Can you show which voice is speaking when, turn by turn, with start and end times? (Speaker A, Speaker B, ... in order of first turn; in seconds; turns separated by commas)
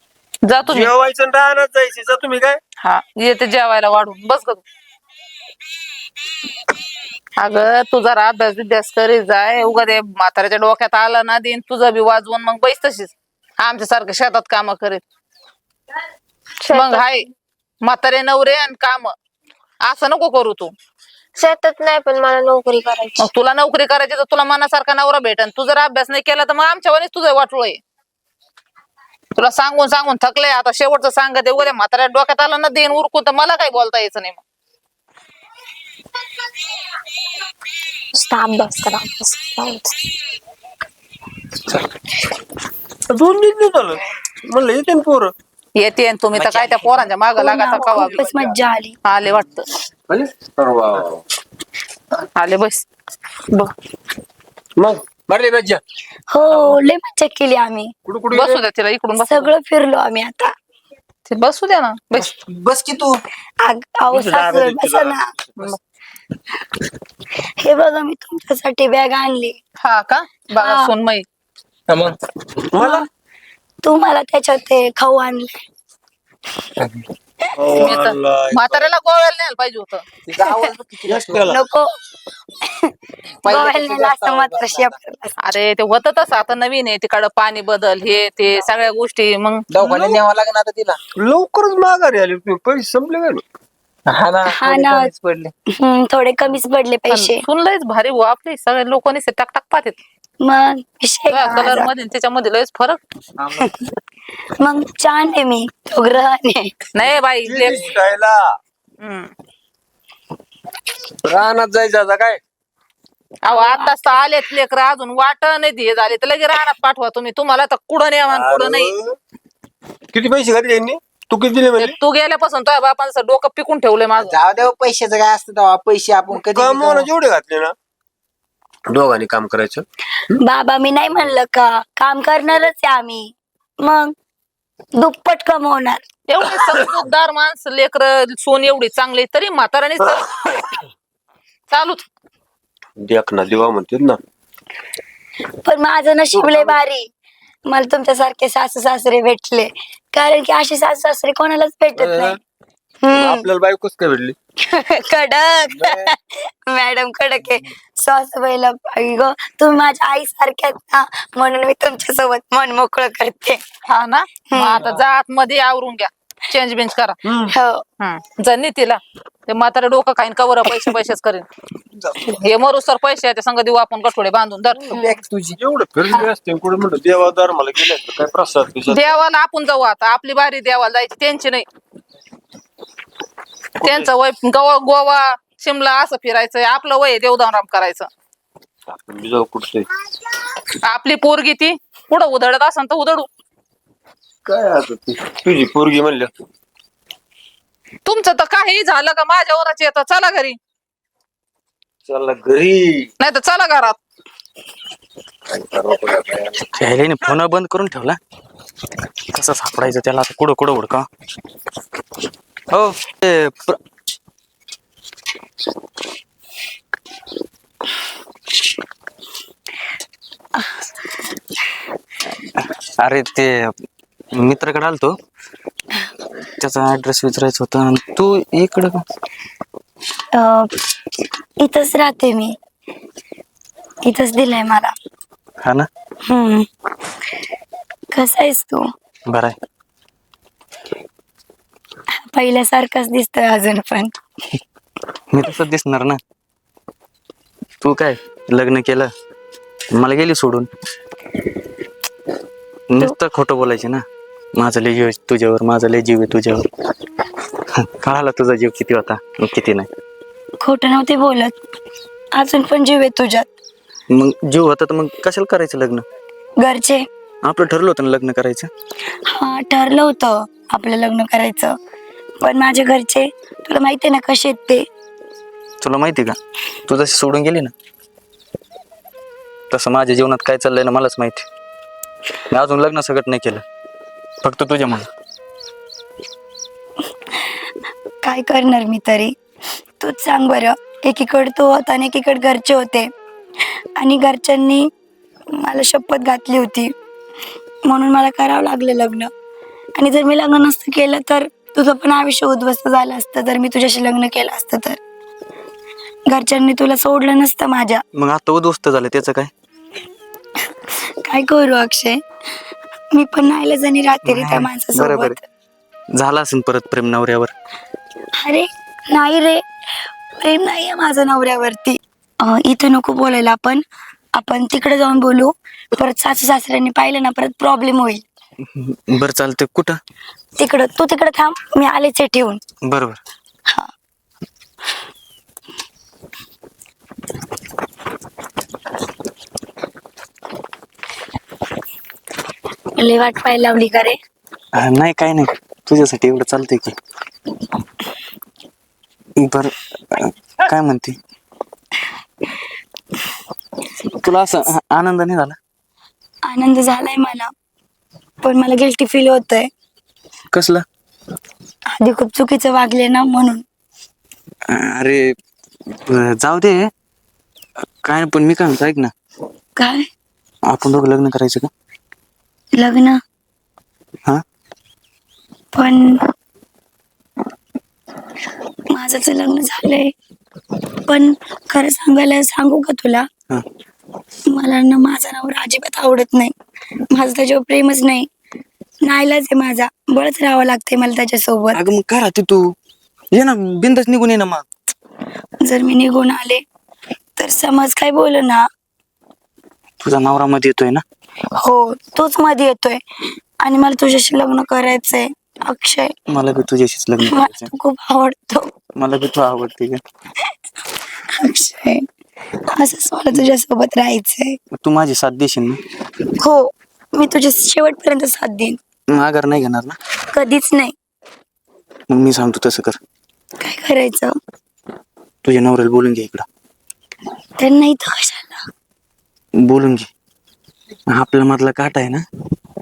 Speaker A: 0.5-0.9, Speaker B: 0.6-2.6, Speaker A: 2.8-4.6, Speaker A: 7.4-15.0, Speaker C: 16.6-17.1, Speaker A: 16.7-17.2, Speaker A: 17.8-19.1, Speaker A: 19.8-20.7, Speaker C: 21.4-23.3, Speaker A: 23.2-27.8, Speaker A: 29.4-34.4, Speaker C: 38.1-39.9, Speaker B: 43.1-45.3, Speaker A: 45.8-48.5, Speaker D: 46.4-46.9, Speaker E: 47.3-49.0, Speaker A: 49.0-49.6, Speaker B: 50.1-51.2, Speaker A: 52.3-52.8, Speaker B: 54.8-55.8, Speaker E: 56.3-57.9, Speaker B: 58.1-58.6, Speaker A: 58.3-59.5, Speaker E: 59.2-60.5, Speaker A: 61.3-62.3, Speaker D: 62.1-63.2, Speaker E: 63.6-65.2, Speaker B: 64.1-65.7, Speaker E: 67.6-69.6, Speaker A: 69.8-71.2, Speaker E: 70.6-70.9, Speaker D: 71.9-72.2, Speaker B: 72.6-73.1, Speaker E: 72.8-73.1, Speaker E: 73.8-75.6, Speaker B: 76.8-78.9, Speaker A: 77.8-80.0, Speaker D: 80.3-81.6, Speaker B: 81.1-81.6, Speaker E: 81.5-81.9, Speaker E: 82.7-82.9, Speaker D: 83.4-85.0, Speaker E: 83.4-85.4, Speaker A: 85.4-89.7, Speaker D: 89.7-91.0, Speaker B: 89.8-90.2, Speaker B: 91.2-93.4, Speaker D: 94.1-95.5, Speaker E: 94.5-95.1, Speaker E: 95.7-97.4, Speaker A: 97.1-99.9, Speaker E: 100.4-101.9, Speaker A: 101.3-103.0, Speaker D: 103.4-103.7, Speaker E: 104.6-106.7, Speaker A: 106.9-107.9, Speaker B: 107.4-108.4, Speaker A: 109.0-109.3, Speaker B: 111.2-112.4, Speaker A: 113.4-118.9, Speaker E: 113.5-114.1, Speaker B: 118.3-119.1, Speaker B: 120.1-122.0, Speaker A: 121.8-124.3, Speaker D: 124.2-127.1, Speaker B: 126.3-127.7, Speaker B: 128.9-130.3, Speaker E: 130.4-134.1, Speaker E: 135.0-136.0, Speaker A: 136.3-140.4, Speaker A: 141.7-142.0, Speaker B: 143.0-144.2, Speaker E: 145.6-147.1, Speaker B: 146.3-146.8, Speaker E: 147.7-152.4, Speaker B: 151.9-152.4, Speaker E: 153.0-153.4, Speaker B: 153.1-154.3, Speaker E: 154.6-163.6, Speaker B: 155.7-156.1, Speaker A: 163.9-167.2, Speaker E: 164.5-164.8, Speaker B: 167.2-167.5, Speaker E: 167.5-167.8, Speaker A: 168.0-171.5, Speaker A: 172.3-175.1, Speaker D: 174.9-175.6, Speaker B: 175.6-179.1, Speaker A: 178.9-181.6, Speaker B: 183.8-184.1, Speaker A: 183.8-188.1, Speaker B: 188.9-189.9, Speaker A: 190.8-193.3, Speaker B: 194.4-196.3, Speaker A: 198.0-200.6, Speaker B: 202.1-203.1, Speaker A: 203.2-204.0, Speaker B: 205.5-206.6, Speaker F: 206.8-208.2, Speaker F: 209.3-211.0, Speaker F: 212.7-213.8, Speaker F: 222.6-223.5, Speaker F: 224.3-225.1, Speaker F: 226.6-229.0, Speaker E: 230.3-230.7, Speaker E: 231.6-232.6, Speaker E: 234.0-234.9, Speaker F: 235.6-235.9, Speaker E: 236.3-236.7, Speaker E: 238.1-238.8, Speaker F: 239.3-239.5, Speaker E: 242.2-244.1, Speaker F: 245.3-246.2, Speaker F: 247.8-249.1, Speaker F: 249.9-250.7, Speaker F: 252.9-254.0, Speaker F: 254.6-256.6, Speaker F: 258.0-259.9, Speaker E: 260.6-261.5, Speaker E: 262.4-263.5, Speaker F: 264.1-266.0, Speaker E: 266.6-267.0, Speaker F: 267.4-268.7, Speaker E: 269.3-271.7, Speaker E: 272.4-274.9, Speaker F: 275.8-276.4, Speaker F: 276.9-277.7, Speaker F: 279.7-281.4, Speaker F: 282.5-283.6, Speaker F: 284.4-285.1, Speaker E: 288.2-289.3, Speaker E: 290.0-293.1, Speaker E: 294.0-294.9, Speaker E: 295.6-296.9, Speaker E: 297.9-299.3, Speaker E: 299.9-305.0, Speaker E: 306.3-308.0, Speaker F: 308.1-309.5, Speaker E: 311.2-312.2, Speaker E: 313.1-315.4, Speaker F: 314.2-315.4, Speaker F: 316.1-317.5, Speaker E: 318.4-319.6, Speaker E: 320.4-323.8, Speaker E: 324.4-328.2, Speaker F: 328.8-329.9, Speaker E: 330.6-332.6, Speaker F: 332.9-333.2, Speaker E: 343.0-344.2, Speaker F: 344.8-346.9, Speaker F: 349.4-351.2, Speaker F: 354.2-355.6, Speaker E: 356.5-357.5, Speaker E: 358.4-359.7, Speaker F: 360.5-360.8, Speaker E: 361.9-363.6, Speaker F: 364.7-365.2, Speaker F: 366.1-366.8, Speaker F: 368.0-369.1, Speaker E: 369.8-370.1, Speaker F: 370.7-371.7, Speaker E: 372.8-373.2, Speaker E: 375.7-376.2, Speaker E: 378.9-380.1, Speaker E: 381.1-383.2, Speaker E: 384.5-386.5, Speaker E: 387.1-388.3, Speaker E: 389.1-391.8, Speaker F: 391.7-392.6, Speaker F: 393.3-394.6, Speaker E: 395.6-396.6, Speaker E: 397.4-398.6, Speaker F: 400.0-401.0, Speaker E: 401.6-403.0, Speaker E: 403.6-406.1, Speaker F: 406.3-407.7, Speaker E: 407.2-408.7, Speaker F: 409.0-410.0, Speaker E: 411.4-412.0, Speaker E: 412.7-414.6, Speaker F: 414.8-415.8, Speaker E: 416.4-418.8, Speaker F: 419.1-419.9, Speaker E: 420.3-420.9, Speaker F: 422.1-423.0, Speaker E: 423.6-424.3, Speaker F: 425.4-426.4, Speaker E: 427.6-428.6, Speaker F: 429.7-430.1, Speaker F: 431.1-432.2